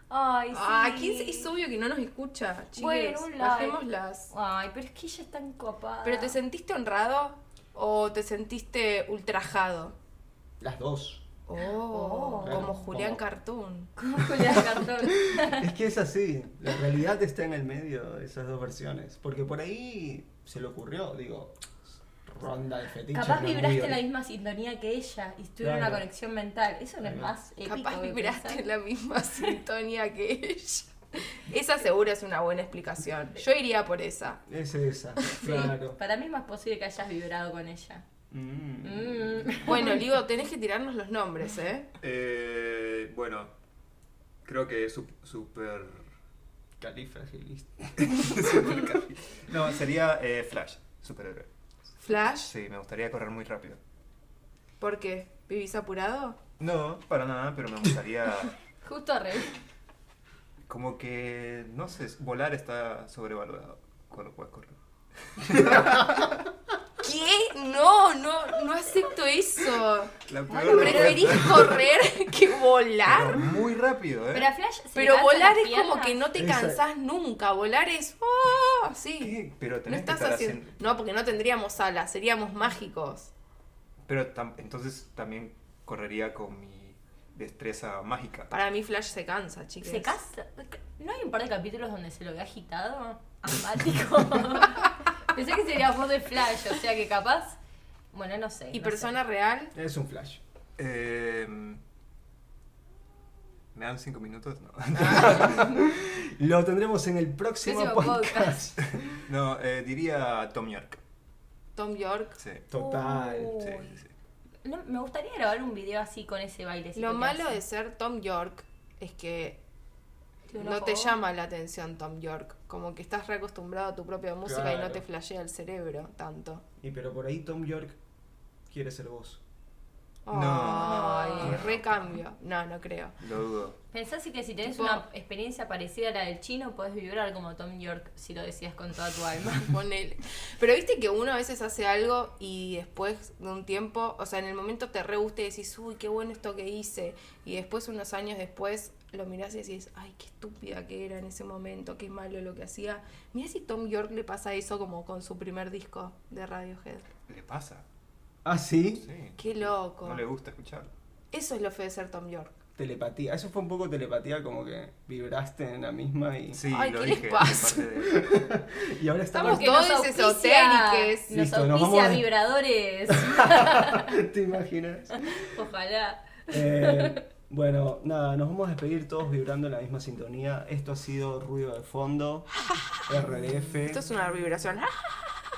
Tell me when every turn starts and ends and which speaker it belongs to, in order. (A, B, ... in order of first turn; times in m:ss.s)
0:00.1-0:01.5 A
0:00.5-0:04.3 B
0:02.8-0:06.4 A
0:06.0-0:10.0 B
0:10.6-0:11.2 C
0:11.5-0:13.9 B
0:11.9-0:12.8 A
0:12.4-0:13.2 C
0:14.0-0:15.7 A
0:14.3-0:24.0 C
0:23.1-0:28.7 A
0:25.6-0:26.1 C
0:27.0-0:27.4 C
0:27.6-0:34.4 B
0:34.5-0:36.0 C
0:35.2-0:35.6 B
0:35.4-0:38.0 A
0:38.3-0:39.8 C
0:38.8-0:40.0 A
0:39.6-0:41.9 B
0:42.0-0:43.5 D
0:44.4-0:46.1 D
0:46.8-0:48.8 C
0:48.0-0:51.5 D
0:52.0-0:52.5 B
0:52.1-0:53.8 D
0:54.8-0:56.4 B
0:56.6-0:58.5 D
0:58.8-0:59.6 A
1:00.7-1:06.4 D
1:05.6-1:06.2 C
1:07.0-1:13.4 B
1:10.2-1:11.9 D
1:10.7-1:11.7 C
1:13.0-1:14.5 D
1:14.3-1:16.2 A
1:15.0-1:23.3 B
1:16.4-1:16.8 C
1:19.2-1:20.8 D
1:24.1-1:28.5 D
1:28.5-1:30.1 B
1:29.8-1:37.6 A
1:38.1-1:39.2 A
1:38.7-1:39.7 B
1:39.8-1:40.4 C
1:40.8-1:41.8 D
1:43.7-1:45.7 D
1:45.0-1:49.2 C
1:47.6-1:48.6 A
1:49.2-1:51.0 D
1:51.8-1:52.4 B
1:52.4-1:52.7 D
1:52.7-1:53.7 C
1:52.7-1:54.0 A
1:53.6-1:54.1 D
1:54.6-1:57.6 A
1:57.0-1:59.6 B
2:00.5-2:01.2 A
2:00.6-2:06.6 B
2:04.4-2:05.0 C
2:06.8-2:08.0 C
2:08.7-2:09.4 C
2:10.3-2:13.2 B
2:10.3-2:12.2 D
2:10.6-2:11.6 A
2:13.2-2:13.8 D
2:13.9-2:19.8 A
2:14.6-2:15.0 B
2:19.6-2:37.1 B
2:37.3-2:37.8 D
2:38.4-2:39.1 C
2:38.9-2:40.9 D
2:39.4-2:40.2 B
2:41.3-2:42.6 B
2:42.8-2:46.6 C
2:46.5-2:48.2 D
2:46.7-2:47.8 B
2:48.0-2:49.8 C
2:49.3-2:51.3 B
2:49.3-2:54.2 A
2:51.3-2:52.3 C
2:53.1-2:55.5 C
2:55.4-2:57.2 A
2:56.5-3:02.5 C
3:03.1-3:04.0 C
3:03.9-3:05.4 B